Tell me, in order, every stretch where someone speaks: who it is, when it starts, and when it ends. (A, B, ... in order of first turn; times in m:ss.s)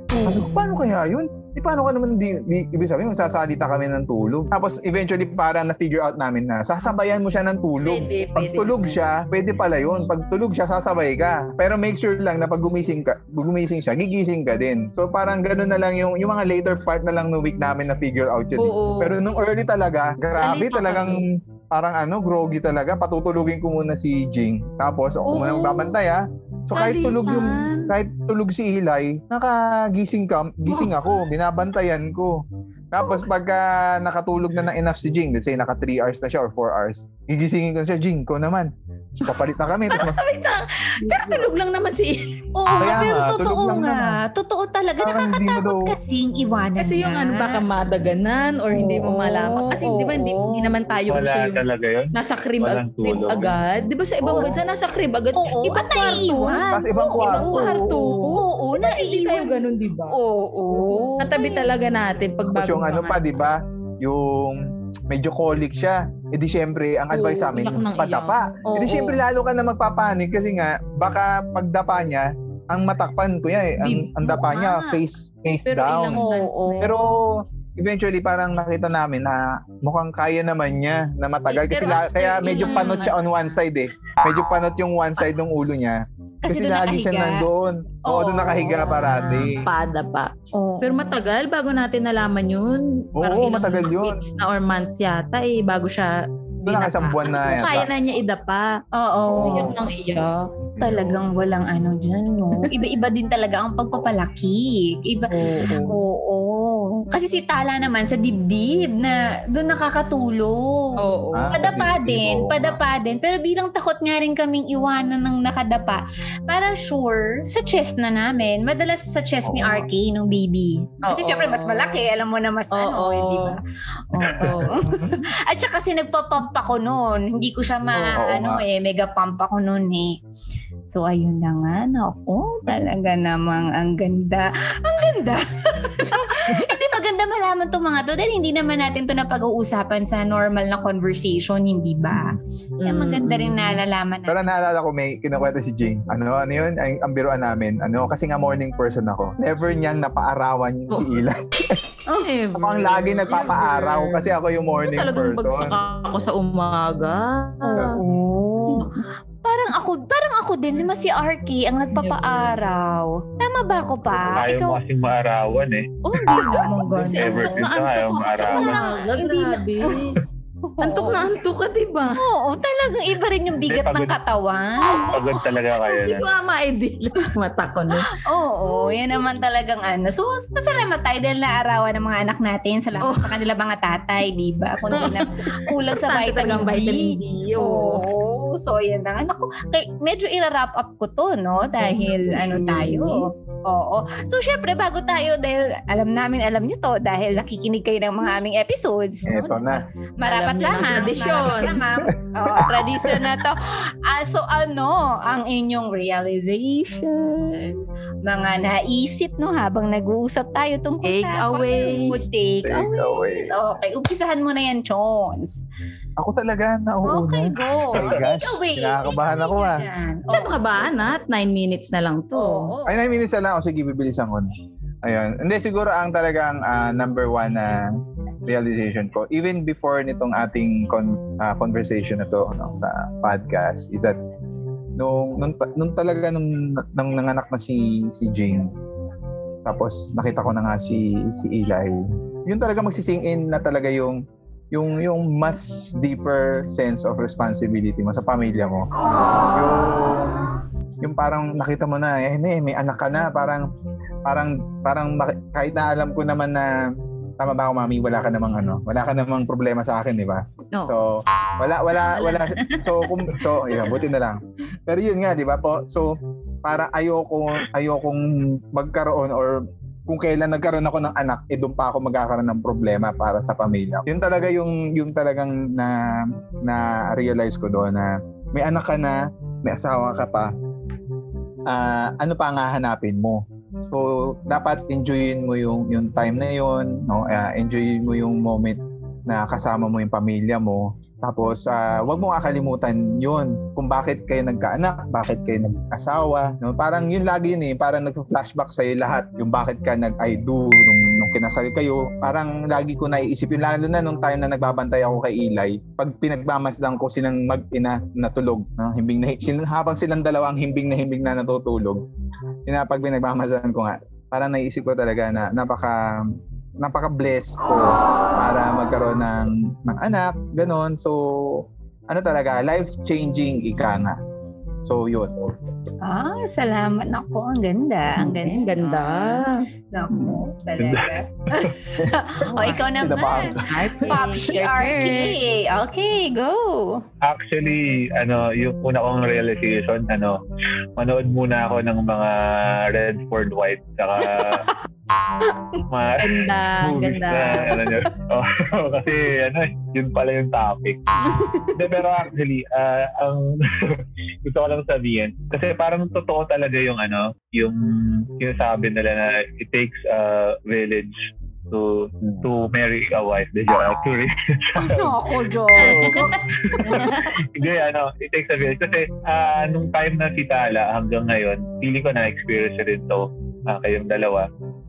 0:00.1-0:00.5 A
0:00.2-0:40.2 B
0:07.8-0:09.0 A
0:18.6-0:19.2 A
0:20.4-0:21.2 A
0:25.2-0:26.0 A
0:26.7-0:27.9 A
0:30.7-0:31.2 A
0:39.2-0:42.3 A
0:42.5-0:47.6 C
0:42.8-0:44.2 B
0:45.0-0:46.0 B
0:46.8-0:51.6 A
0:48.7-0:50.7 C
0:51.1-0:53.6 D
0:52.1-1:00.2 A
0:54.2-0:54.6 B
0:55.3-1:01.7 C
0:56.7-0:57.8 B
1:00.7-1:03.4 A
1:02.5-1:16.2 B
1:07.1-1:08.4 A
1:08.6-1:09.2 C
1:13.8-1:15.0 C
1:15.7-1:17.0 A
1:16.1-1:16.9 C
1:16.8-1:29.7 B
1:21.5-1:23.3 A
1:22.4-1:23.1 C
1:26.4-1:27.5 C
1:28.1-1:29.5 C
1:28.2-1:28.6 A
1:29.3-1:38.8 A
1:30.5-1:31.2 C
1:33.2-1:34.2 B
1:36.6-1:37.9 B
1:38.9-1:39.8 C
1:39.3-1:39.8 B
1:39.4-1:40.5 A
1:40.8-1:41.2 B
1:40.8-2:10.2 C
1:45.3-1:46.0 A
1:45.5-1:45.8 B
1:51.0-1:51.6 A
1:51.3-1:52.8 B
1:59.4-1:59.8 B
2:01.1-2:02.0 A
2:02.7-2:03.6 A
2:04.3-2:04.9 A
2:04.5-2:05.1 B
2:07.9-2:08.2 A
2:08.2-2:08.6 B
2:10.9-2:24.4 C
2:22.8-2:23.8 A
2:24.3-2:32.0 B
2:30.9-2:31.2 A
2:32.2-2:34.2 A
2:32.5-2:35.8 B
2:34.8-2:38.0 A
2:37.6-2:38.9 C
2:38.7-2:39.0 A
2:39.4-2:44.8 C
2:41.9-2:42.6 A
2:44.3-2:48.9 D
2:46.0-2:47.7 C
2:46.5-2:50.2 A
2:48.4-2:51.3 C
2:50.8-2:52.2 A
2:52.1-2:55.2 C
2:53.6-2:54.1 D
2:55.1-2:56.3 D
2:55.8-2:59.2 A
2:58.0-3:35.6 C
3:03.0-3:03.4 A
3:04.9-3:08.0 A
3:11.8-3:13.2 A
3:12.4-3:12.8 B
3:19.2-3:19.8 B
3:20.2-3:21.8 A
3:22.4-3:23.3 B
3:31.0-3:32.2 A
3:32.6-3:33.5 B
3:36.2-3:39.8 B
3:37.0-3:41.0 C
3:40.3-3:42.7 A
3:42.3-3:43.0 C
3:42.8-3:44.5 B
3:45.0-3:47.8 B
3:48.4-3:54.2 B
3:55.0-3:58.7 B
3:59.6-4:02.0 B
4:02.5-4:04.2 B
4:04.7-4:08.9 B
4:09.5-4:10.4 B
4:11.0-4:13.7 B
4:14.2-4:16.8 B
4:17.4-4:40.5 B
4:21.9-4:24.0 A
4:41.7-5:12.0 B
5:12.7-5:24.2 B
5:24.8-5:25.5 B
5:26.0-5:37.0 C
5:28.2-5:30.4 A
5:30.8-5:31.7 D
5:32.0-5:34.2 B
5:32.5-5:32.9 A
5:33.4-5:35.4 A
5:37.2-5:40.4 D
5:41.0-5:44.7 D
5:44.2-5:44.7 C
5:45.9-5:51.0 D
5:46.2-5:47.8 A
5:51.2-5:51.7 C
5:51.7-6:01.2 D
6:01.7-6:05.1 D
6:04.8-6:07.1 C
6:05.8-6:07.6 A
6:05.8-6:14.4 D